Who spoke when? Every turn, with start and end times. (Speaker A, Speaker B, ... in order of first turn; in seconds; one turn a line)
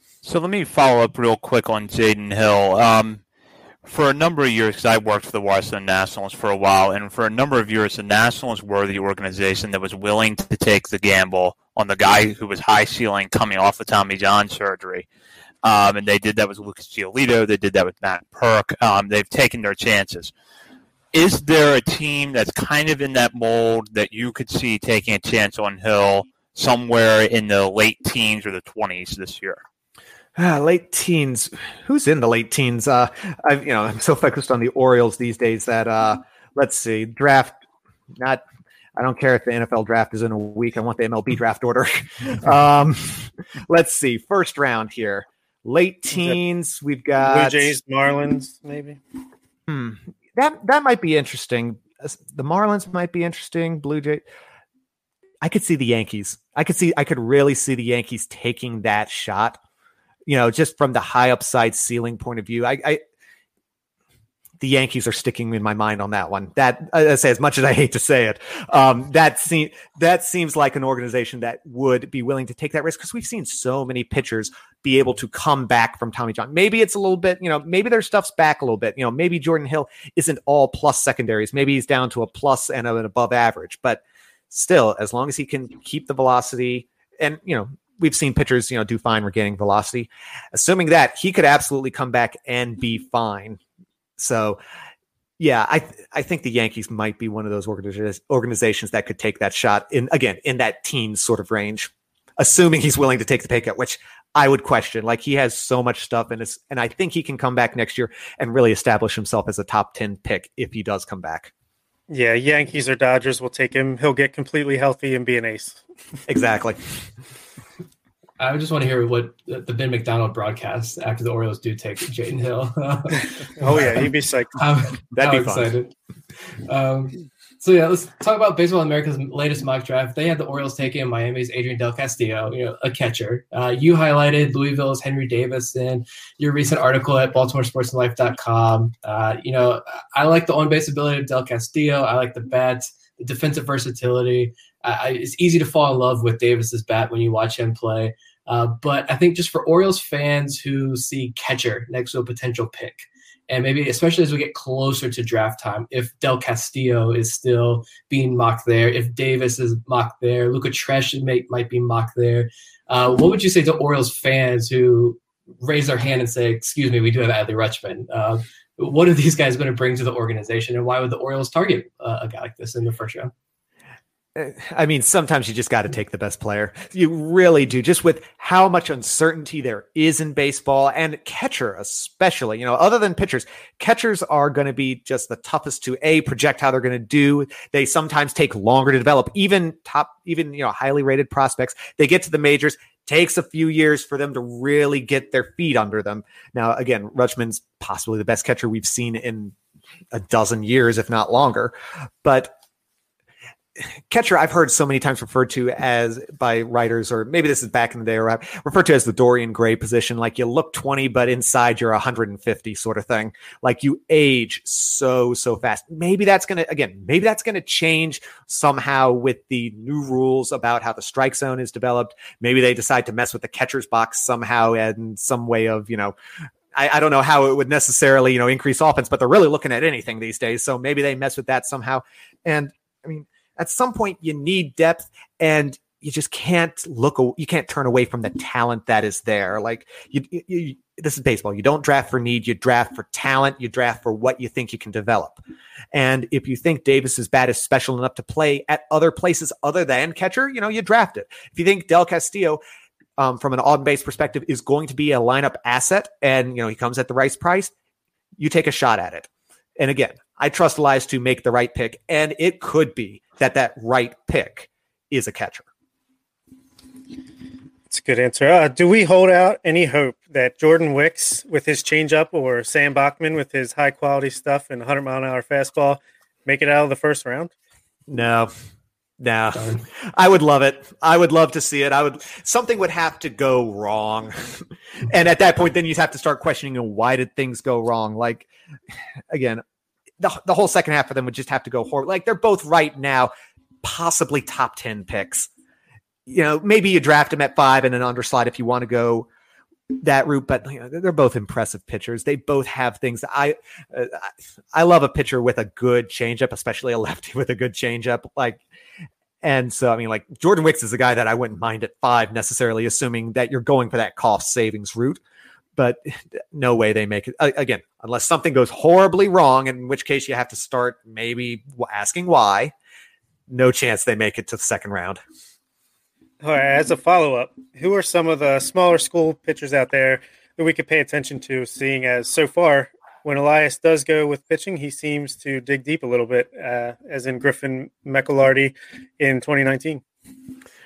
Speaker A: 0.2-3.2
Speaker A: 3.8-15.1
Speaker A: 15.6-20.3
Speaker A: 21.1-29.6
Speaker B: 30.4-37.6
Speaker B: 38.2-38.4
Speaker B: 39.0-47.7
Speaker C: 47.2-49.0
Speaker B: 49.7-54.2
Speaker B: 55.4-59.6
Speaker B: 60.3-63.0
Speaker B: 64.6-93.6
Speaker B: 94.2-94.6
Speaker B: 95.4-111.5
Speaker C: 112.1-115.8
Speaker B: 116.3-116.8
Speaker D: 118.4-124.0
Speaker C: 123.6-124.5
Speaker D: 124.5-125.9
Speaker B: 125.1-125.7
Speaker D: 126.6-173.3
Speaker B: 174.3-199.5
Speaker B: 200.1-201.7
Speaker B: 202.2-202.5
Speaker B: 204.1-226.1
Speaker B: 226.7-245.4
Speaker B: 245.9-252.6
Speaker B: 253.2-257.7
Speaker B: 258.4-265.6
Speaker C: 267.9-277.5
Speaker B: 278.1-278.5
Speaker B: 279.2-288.5
Speaker B: 289.3-289.6
Speaker B: 290.2-293.3
Speaker B: 293.8-295.5
Speaker B: 296.3-299.3
Speaker B: 300.0-308.6
Speaker B: 309.4-315.2
Speaker B: 315.8-322.7
Speaker B: 323.5-325.2
Speaker C: 326.4-340.0